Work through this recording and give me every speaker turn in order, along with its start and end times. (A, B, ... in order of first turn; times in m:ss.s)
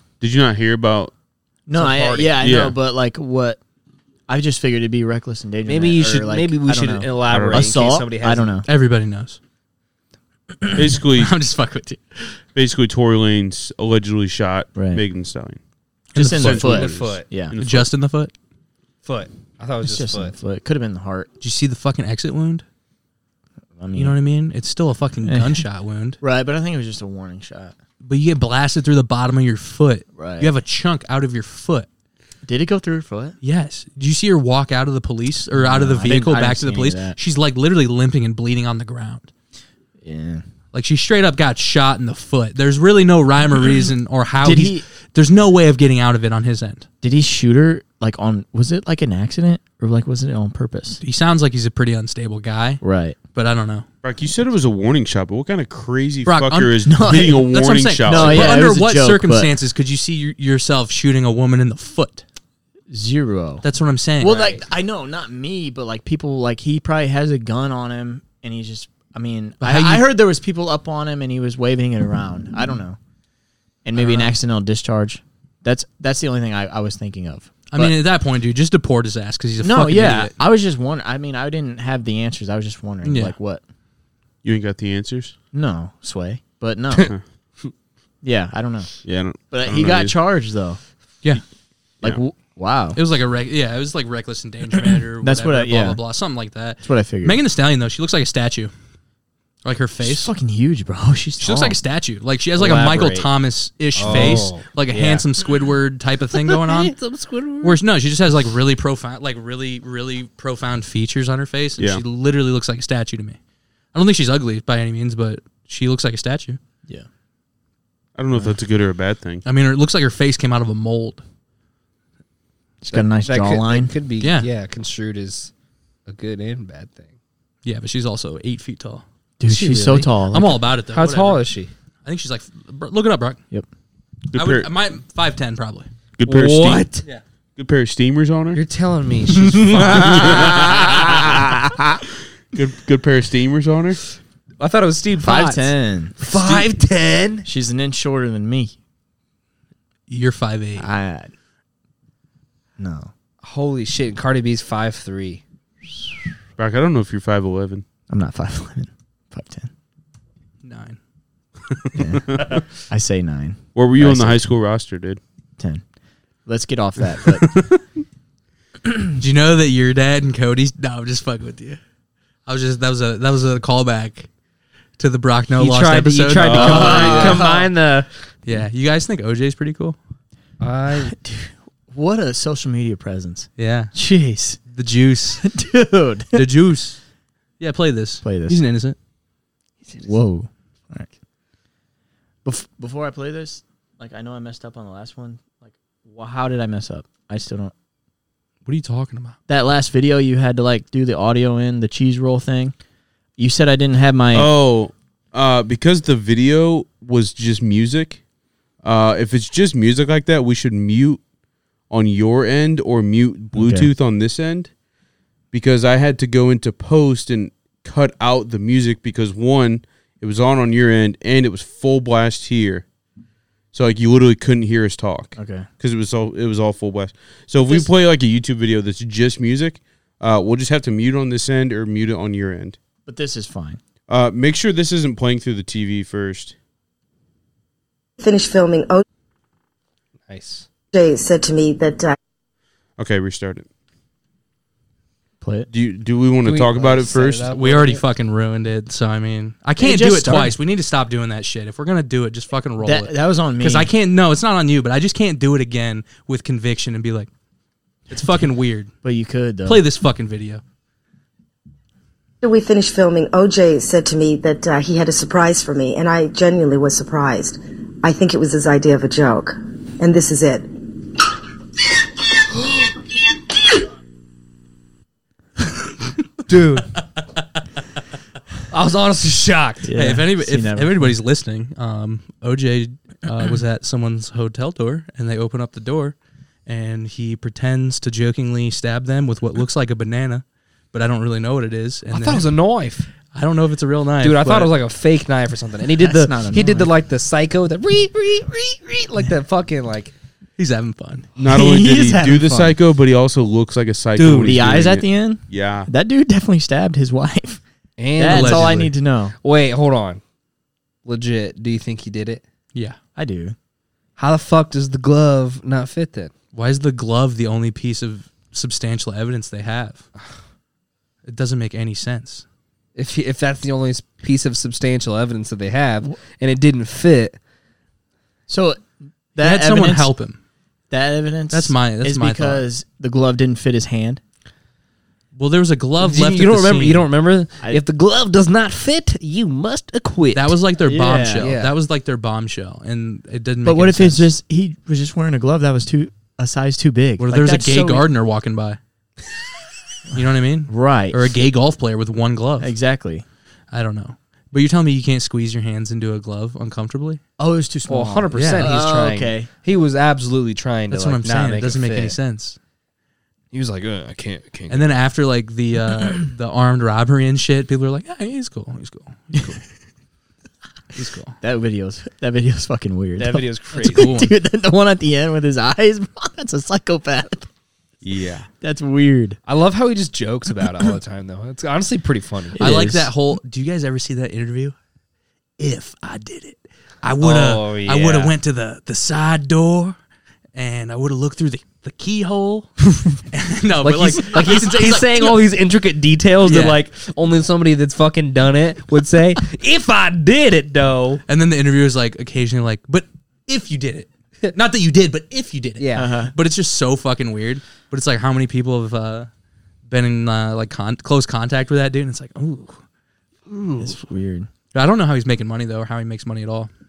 0:00.2-0:01.1 A
0:01.7-0:03.6 B
0:01.7-0:02.4 C
0:02.4-0:02.8 A
0:04.3-0:08.7 B
0:05.7-0:08.6 C
0:07.3-0:07.7 A
0:08.7-0:09.4 D
0:10.8-0:11.4 A
0:11.2-0:12.4 D
0:12.6-0:15.6 A
0:14.8-0:15.0 B
0:16.1-0:16.6 D
0:16.2-0:17.6 B
0:16.2-0:17.9 A
0:16.4-0:17.3 C
0:17.6-0:18.3 D
0:19.0-0:20.4 C
0:19.8-0:21.3 B
0:21.4-0:22.6 D
0:23.8-0:24.2 B
0:23.9-0:26.2 D
0:25.2-0:25.7 B
0:26.2-0:27.7 B
0:28.0-0:31.9 D
0:30.2-0:30.5 B
0:32.4-0:33.4 B
0:33.4-0:39.3 D
0:35.5-0:37.2 B
0:40.0-0:40.5 B
0:40.7-0:46.9 D
0:44.4-0:44.8 B
0:47.0-0:51.0 B
0:51.0-0:52.8 D
0:52.8-0:53.2 B
0:53.3-0:53.9 D
0:54.0-0:58.6 A
0:56.3-1:02.2 D
0:56.9-0:57.5 B
0:58.0-0:59.5 B
1:02.9-1:03.6 B
1:03.6-1:04.6 D
1:04.2-1:13.0 B
1:09.6-1:10.1 D
1:13.8-1:18.0 B
1:14.0-1:14.3 D
1:17.7-1:20.3 D
1:19.6-1:23.6 B
1:23.0-1:23.4 D
1:24.4-1:25.4 A
1:25.5-1:27.1 B
1:28.2-1:30.8 B
1:29.0-1:30.2 A
1:32.0-1:33.0 B
1:33.0-1:38.7 D
1:35.2-1:36.0 B
1:36.8-1:37.4 B
1:39.6-1:40.3 D
1:40.0-1:41.8 B
1:41.4-1:47.0 D
1:42.6-1:43.3 C
1:44.0-1:45.3 C
1:44.1-1:44.4 B
1:46.4-1:47.8 C
1:47.6-1:53.4 D
1:51.8-1:52.0 A
1:53.9-1:56.6 D
1:58.2-1:59.4 A
1:59.4-2:01.2 D
2:02.8-2:03.9 B
2:02.9-2:05.5 C
2:04.2-2:04.5 D
2:06.1-2:07.1 C
2:07.6-2:09.0 D
2:09.4-2:10.6 B
2:09.5-2:10.1 C
2:10.3-2:11.4 D
2:10.9-2:11.7 C
2:12.0-2:13.4 D
2:14.3-2:14.7 A
2:14.3-2:15.9 D
2:16.2-2:16.9 A
2:16.3-2:17.0 C
2:17.6-2:18.6 A
2:18.5-2:21.4 C
2:19.5-2:22.0 B
2:19.7-2:21.2 A
2:22.5-2:24.0 A
2:24.6-2:27.4 C
2:25.2-2:26.2 B
2:26.3-2:26.6 A
2:27.4-2:28.8 B
2:30.1-2:30.9 D
2:30.8-2:31.3 B
2:32.8-2:33.1 B
2:33.4-2:35.4 C
2:36.6-2:37.8 A
2:38.1-2:39.7 B
2:40.6-2:41.0 D
2:41.9-2:44.4 B
2:43.8-2:45.2 A
2:46.5-2:47.6 B
2:47.5-2:47.8 D
2:49.2-2:51.8 D
2:52.5-2:54.3 D
2:55.0-2:57.1 D
2:55.6-2:58.1 C
2:56.4-2:57.4 A
2:56.6-2:57.7 B
2:58.5-3:00.0 D
3:00.6-3:01.1 C
3:01.0-3:04.6 B
3:03.6-3:03.9 D
3:04.7-3:05.4 D
3:05.4-3:06.5 B
3:06.3-3:07.0 D
3:07.6-3:09.0 D
3:08.2-3:08.6 B
3:09.8-3:10.2 C
3:10.0-3:11.1 B
3:12.4-3:17.7 B
3:18.7-3:19.4 D
3:19.5-3:22.7 B
3:23.4-3:24.5 B
3:24.3-3:28.2 A
3:28.8-3:31.2 A
3:31.9-3:34.7 A
3:33.5-3:33.9 B
3:35.5-3:42.8 A
3:43.7-3:52.8 A
3:45.4-3:45.7 B
3:53.1-3:53.8 B
3:54.1-3:56.6 A
3:58.2-3:59.0 E
4:00.3-4:00.7 C
4:00.9-4:02.2 E
4:03.0-4:03.7 A
4:05.4-4:05.7 B
4:05.7-4:07.5 A
4:06.4-4:08.0 C
4:07.5-4:17.3 D
4:09.8-4:10.6 B
4:12.8-4:13.9 B
4:18.1-4:18.9 D
4:19.0-4:19.8 B
4:19.6-4:20.6 D
4:22.4-4:30.7 E
4:36.5-4:36.9 C
4:38.7-4:40.0 C
4:39.9-4:41.2 B
4:40.0-4:52.5 D
4:52.1-4:53.1 C
4:53.3-4:54.7 D
4:54.2-5:00.1 C
4:56.0-4:56.9 B
5:00.6-5:01.3 D
5:01.4-5:05.9 A
5:01.4-5:02.8 B
5:04.2-5:04.6 C
5:04.4-5:07.6 B
5:08.0-5:10.2 C
5:08.2-5:09.4 B
5:08.3-5:08.8 D
5:11.0-5:12.4 C
5:13.2-5:13.6 B
5:14.2-5:16.3 C
5:16.5-5:20.1 D
5:21.3-5:22.4 D
5:23.0-5:27.4 C
5:28.5-5:28.8 B
5:29.4-5:30.1 B
5:29.4-5:30.4 D
5:30.9-5:34.2 B
5:31.5-5:32.7 D
5:35.4-5:37.1 D
5:36.0-5:41.7 C
5:40.4-5:44.3 D
5:41.1-5:41.5 B
5:43.6-5:48.1 B
5:47.2-5:48.8 D
5:50.1-5:52.7 D
5:50.7-5:51.4 B
5:52.6-5:53.2 B
5:53.7-5:57.2 D
5:57.4-5:59.5 B
5:57.9-6:02.2 C
5:58.3-5:58.7 D
6:00.9-6:02.6 D
6:03.5-6:04.9 C
6:04.7-6:09.6 D
6:10.9-6:11.4 D
6:11.4-6:17.5 B
6:13.2-6:14.1 C
6:13.8-6:14.3 D
6:18.0-6:18.5 A
6:18.6-6:19.4 B
6:19.5-6:22.6 C
6:22.6-6:23.1 B
6:22.6-6:24.8 D
6:25.6-6:30.0 D
6:27.2-6:28.4 C
6:30.6-6:35.4 D
6:33.8-6:41.2 C
6:36.4-6:36.8 D
6:41.3-6:49.3 D
6:45.8-6:46.2 C
6:46.0-6:46.3 B
6:49.9-6:52.8 D
6:53.5-6:54.0 C
6:53.8-6:54.5 B
6:54.7-6:56.7 D